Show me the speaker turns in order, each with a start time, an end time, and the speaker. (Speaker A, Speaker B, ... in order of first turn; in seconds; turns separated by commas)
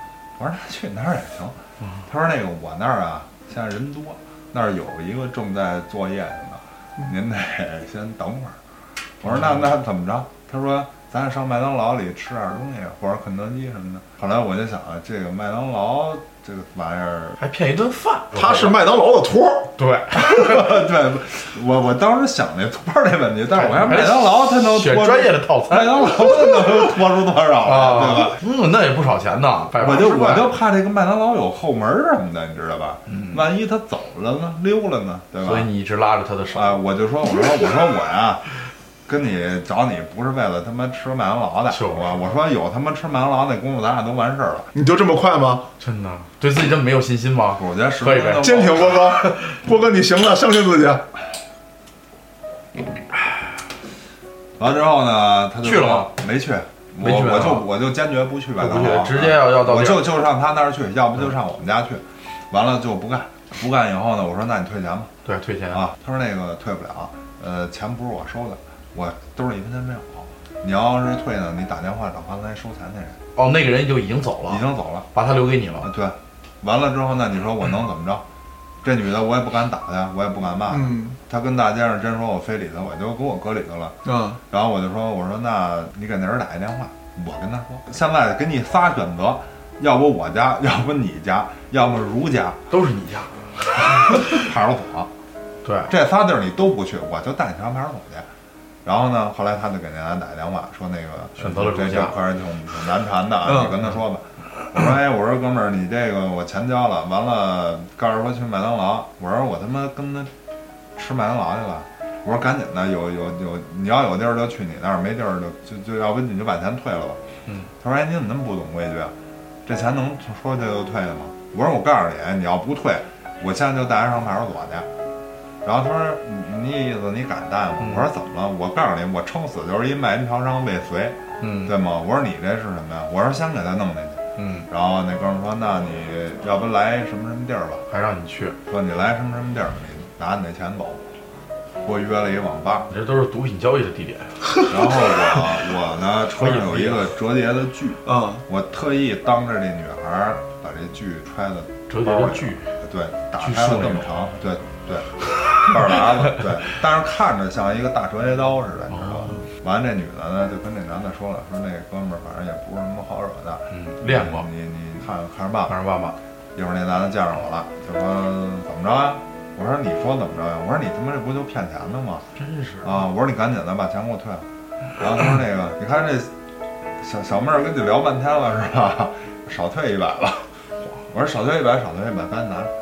Speaker A: 0.4-8.6, Speaker A: 9.2-17.4, Speaker B: 9.2-9.6, Speaker B: 17.4-18.8, Speaker C: 18.3-19.7, Speaker B: 19.8-20.5, Speaker A: 20.1-28.4, Speaker B: 23.5-26.3, Speaker B: 27.6-30.5, Speaker A: 29.7-35.7, Speaker B: 33.1-33.4, Speaker B: 35.4-36.8, Speaker A: 36.5-38.4, Speaker A: 39.1-44.7, Speaker B: 41.7-42.1, Speaker C: 44.7-45.7, Speaker B: 45.8-49.1, Speaker A: 47.5-49.1, Speaker C: 48.4-51.0, Speaker A: 54.6-65.1, Speaker B: 55.6-56.1, Speaker B: 57.0-57.6, Speaker B: 58.6-60.1, Speaker B: 65.2-65.8, Speaker A: 65.7-73.2, Speaker B: 73.3-75.9, Speaker A: 74.5-75.1, Speaker A: 75.8-78.2, Speaker A: 78.8-92.6, Speaker C: 80.7-81.2, Speaker C: 84.0-84.4, Speaker B: 92.7-94.3, Speaker A: 93.8-95.1, Speaker B: 95.6-95.9, Speaker A: 95.9-98.3, Speaker A: 98.8-110.3, Speaker B: 101.4-102.1, Speaker C: 103.4-103.8, Speaker A: 111.0-117.2, Speaker A: 117.8-119.1, Speaker A: 119.7-124.9, Speaker A: 125.6-137.8, Speaker B: 127.8-128.1, Speaker B: 131.4-131.7, Speaker B: 134.3-134.7, Speaker B: 137.9-138.6, Speaker A: 138.7-141.0, Speaker A: 141.8-142.9, Speaker B: 142.9-144.3, Speaker A: 144.7-165.8, Speaker B: 146.3-147.1, Speaker C: 148.0-148.4, Speaker B: 151.9-152.7, Speaker B: 153.4-154.1, Speaker B: 158.9-159.5, Speaker B: 163.7-164.5, Speaker B: 165.7-166.2, Speaker A: 166.5-172.2, Speaker B: 172.4-172.9, Speaker A: 172.8-174.4, Speaker A: 175.0-176.3, Speaker A: 177.0-180.5, Speaker A: 181.1-182.7